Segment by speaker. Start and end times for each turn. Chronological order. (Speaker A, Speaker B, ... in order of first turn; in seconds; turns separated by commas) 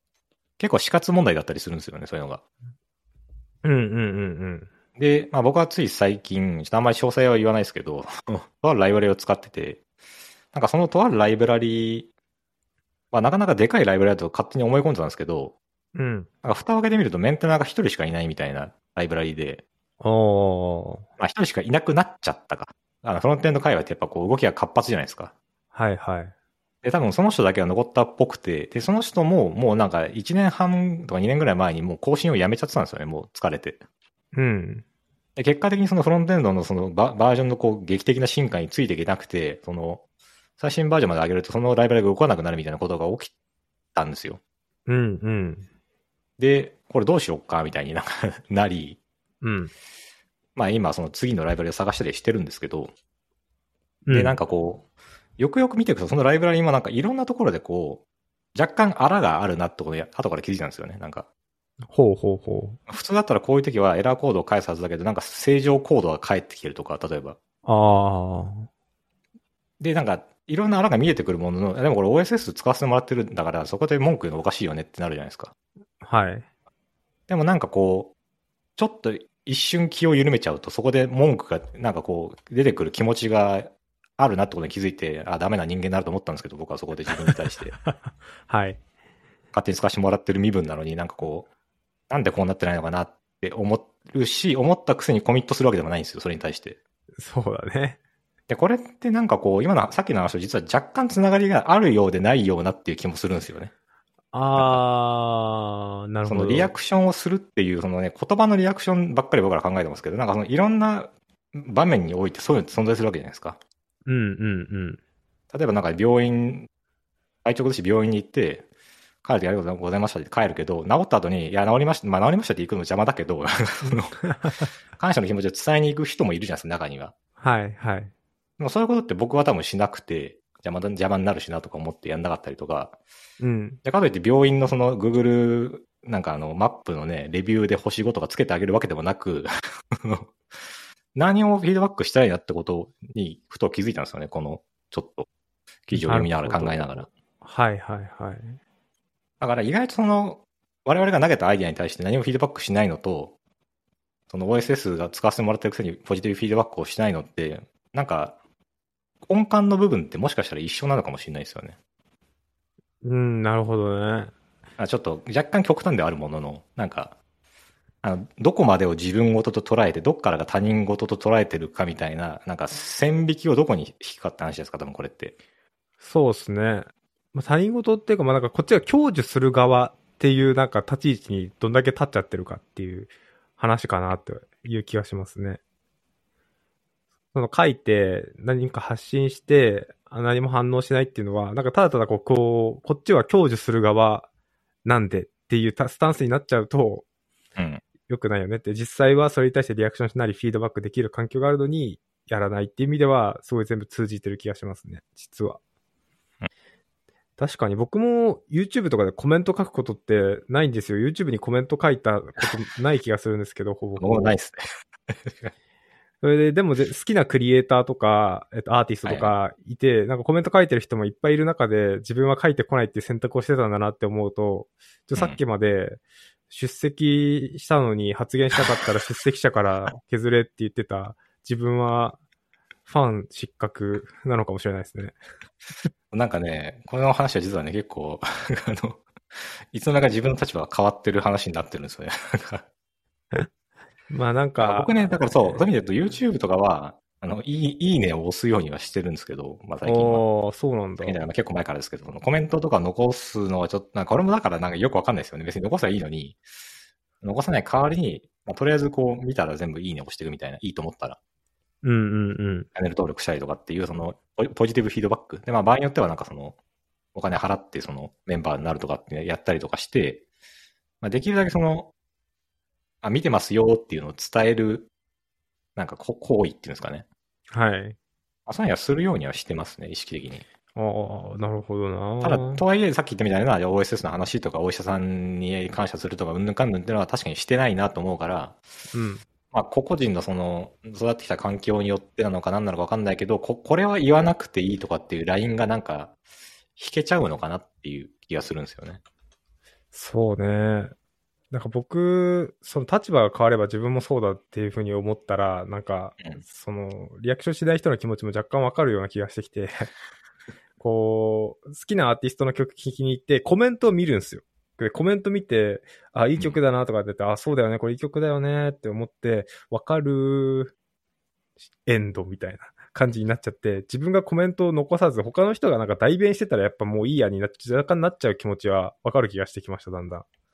Speaker A: 0.6-2.4, Speaker B: 3.6-4.7, Speaker A: 5.0-9.8, Speaker A: 10.5-12.1, Speaker A: 13.1-15.6, Speaker B: 15.9-16.3, Speaker A: 16.4-19.6, Speaker B: 20.0-21.1, Speaker A: 21.2-25.3, Speaker B: 25.7-26.3, Speaker A: 26.8-33.8, Speaker B: 34.3-34.8, Speaker A: 35.4-40.0, Speaker A: 40.6-43.3, Speaker A: 44.0-44.4, Speaker B: 44.9-45.7, Speaker A: 46.4-49.0, Speaker B: 49.4-49.7, Speaker A: 50.6-52.9, Speaker B: 54.1-54.4, Speaker A: 54.1-54.9, Speaker A: 55.4-58.0, Speaker A: 58.5-61.3, Speaker B: 61.9-62.8, Speaker A: 62.9-67.4, Speaker B: 67.7-68.7, Speaker A: 69.8-75.5, Speaker B: 76.0-76.5, Speaker A: 77.3-78.1, Speaker A: 78.8-87.7, Speaker B: 87.2-88.8, Speaker A: 89.5-91.5, Speaker A: 92.1-96.8, Speaker B: 97.2-98.0, Speaker A: 98.5-103.7, Speaker B: 104.3-106.7, Speaker A: 104.5-104.8, Speaker A: 106.2-113.6, Speaker B: 114.1-115.0, Speaker A: 115.5-116.7, Speaker A: 117.5-118.7, Speaker A: 119.2-124.3, Speaker B: 123.9-124.6, Speaker A: 124.9-127.1, Speaker B: 127.4-128.1, Speaker A: 128.6-133.0, Speaker B: 133.4-133.8, Speaker A: 133.8-140.3, Speaker A: 141.2-145.3, Speaker A: 145.9-147.1, Speaker B: 145.9-148.6, Speaker A: 149.4-153.3, Speaker A: 154.3-158.4, Speaker A: 159.2-161.8, Speaker B: 163.0-164.3, Speaker A: 164.8-167.2, Speaker A: 168.0-175.3, Speaker B: 176.0-185.6, Speaker B: 187.3-194.3, Speaker B: 194.8-197.1, Speaker A: 197.6-197.8, Speaker B: 198.1-205.6, Speaker B: 207.4-214.4, Speaker A: 214.0-215.5, Speaker B: 216.2-232.2, Speaker A: 219.1-219.3, Speaker B: 232.9-235.2, Speaker A: 236.1-239.0, Speaker A: 239.7-242.7, Speaker B: 244.1-245.6, Speaker A: 244.6-250.2, Speaker B: 249.8-251.2, Speaker A: 251.0-256.4, Speaker A: 257.2-261.2, Speaker B: 261.8-262.7, Speaker A: 262.8-266.6, Speaker A: 267.1-270.2, Speaker A: 271.0-271.9, Speaker A: 273.0-274.9, Speaker A: 275.8-277.1, Speaker B: 277.5-278.0, Speaker A: 278.5-280.5, Speaker B: 280.8-282.6, Speaker A: 282.2-288.6, Speaker B: 288.9-289.2, Speaker A: 289.5-296.2, Speaker A: 296.8-299.0, Speaker B: 299.9-300.9, Speaker B: 301.5-309.9, Speaker B: 310.8-320.7, Speaker B: 321.9-330.3